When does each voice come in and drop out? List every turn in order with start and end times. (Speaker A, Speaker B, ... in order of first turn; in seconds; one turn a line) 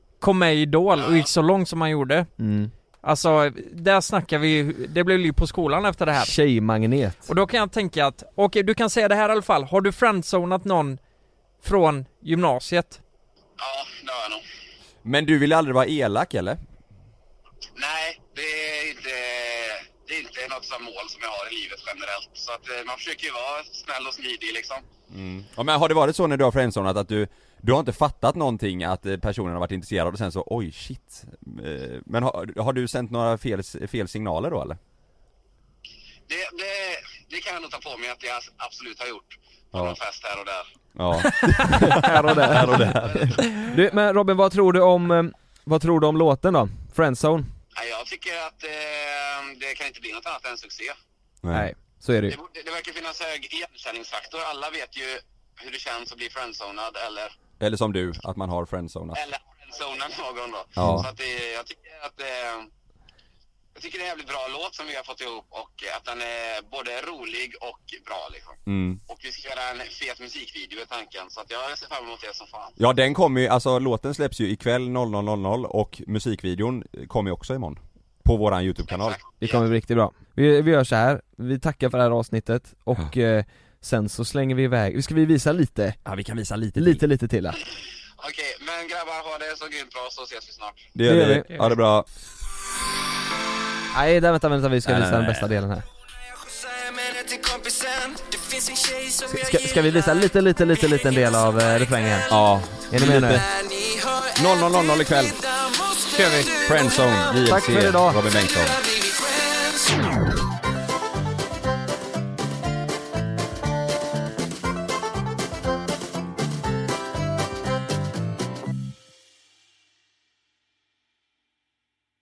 Speaker A: 0.2-2.3
Speaker B: 0.9-1.3
Speaker C: 2.4-2.7
Speaker A: 3.0-6.3
Speaker C: 6.2-7.3
Speaker A: 7.2-11.0
Speaker A: 11.6-13.0
Speaker B: 13.6-14.4
Speaker D: 15.0-16.6
Speaker B: 17.8-24.8
Speaker D: 25.1-34.8
Speaker B: 36.3-40.7
Speaker D: 41.0-43.4
Speaker B: 41.3-41.6
Speaker C: 41.6-47.5
Speaker B: 47.8-51.0
Speaker D: 51.4-51.7
Speaker C: 51.5-52.4
Speaker B: 52.3-57.3
Speaker D: 57.6-59.2
Speaker B: 59.1-62.7
Speaker D: 60.8-61.1
Speaker C: 60.8-61.0
Speaker B: 63.8-72.8
Speaker D: 68.7-69.0
Speaker D: 72.8-79.2
Speaker B: 78.9-79.6
Speaker C: 79.4-86.0
Speaker D: 86.0-87.0
Speaker C: 86.8-87.6
Speaker B: 88.2-90.9
Speaker D: 90.9-92.0
Speaker C: 91.0-91.6
Speaker C: 93.9-95.8
Speaker D: 94.8-95.5
Speaker E: 96.2-100.2
Speaker C: 99.3-102.3
Speaker E: 100.9-102.3
Speaker D: 102.3-103.5
Speaker C: 102.9-103.4
Speaker E: 103.3-107.4
Speaker D: 104.3-105.4
Speaker D: 106.6-108.8
Speaker C: 107.4-108.2
Speaker E: 108.4-110.2